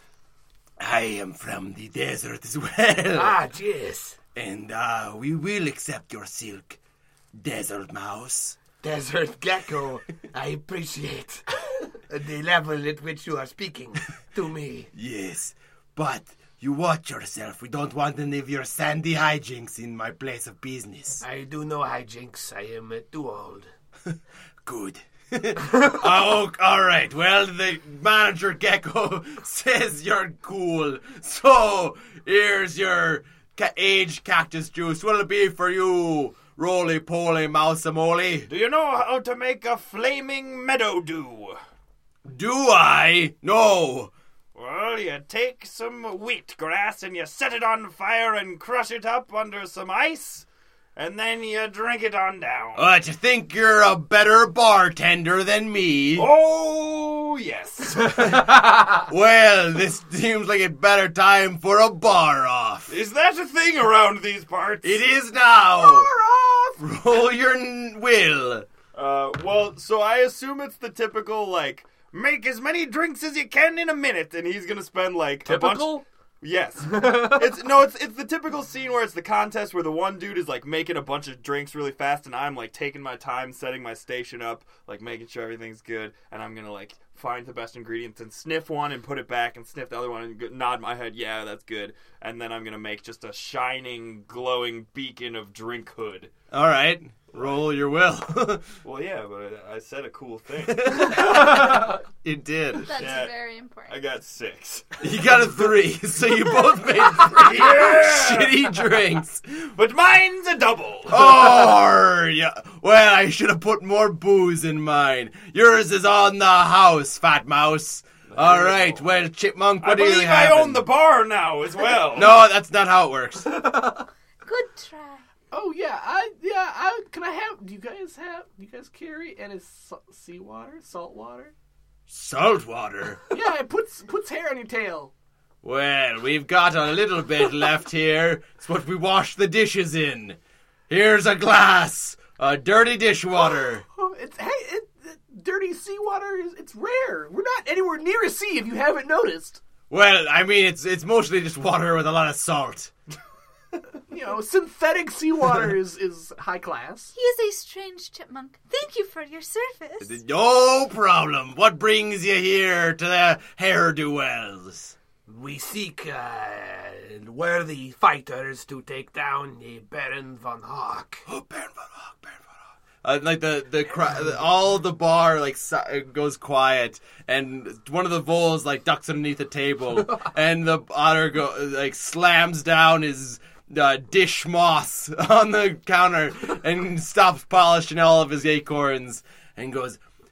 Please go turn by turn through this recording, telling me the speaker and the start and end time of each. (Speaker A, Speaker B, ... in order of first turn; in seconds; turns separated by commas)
Speaker A: 0.8-3.4, Speaker B: 3.1-4.2, Speaker A: 4.3-6.8, Speaker A: 7.4-8.6, Speaker B: 8.8-14.9, Speaker A: 14.9-21.2, Speaker B: 21.2-23.7, Speaker A: 24.1-38.5, Speaker C: 38.5-41.6, Speaker A: 42.3-44.1, Speaker C: 44.5-52.9, Speaker A: 52.8-56.3, Speaker C: 56.2-58.5, Speaker A: 58.0-62.9, Speaker C: 62.9-65.0, Speaker A: 64.8-66.1, Speaker D: 65.8-66.8, Speaker A: 66.8-68.7, Speaker C: 68.9-96.3, Speaker B: 75.5-76.0, Speaker A: 96.5-98.6, Speaker C: 98.8-102.0, Speaker A: 100.7-103.0, Speaker E: 102.8-104.0, Speaker C: 102.9-103.3, Speaker C: 103.9-105.0, Speaker A: 105.0-109.7, Speaker E: 106.5-107.3, Speaker C: 107.1-108.7, Speaker C: 109.8-111.5, Speaker A: 111.1-120.8, Speaker C: 118.3-119.0, Speaker C: 119.8-122.4, Speaker A: 122.2-123.6, Speaker E: 124.4-125.2, Speaker D: 125.5-131.5, Speaker A: 132.1-133.2, Speaker D: 133.3-135.1, Speaker A: 135.6-140.4, Speaker A: 140.9-143.8, Speaker D: 143.6-149.6, Speaker A: 149.9-152.9, Speaker D: 154.1-157.1, Speaker E: 157.2-160.2, Speaker A: 160.0-164.9, Speaker B: 165.3-171.2, Speaker A: 171.3-172.4, Speaker A: 173.0-190.0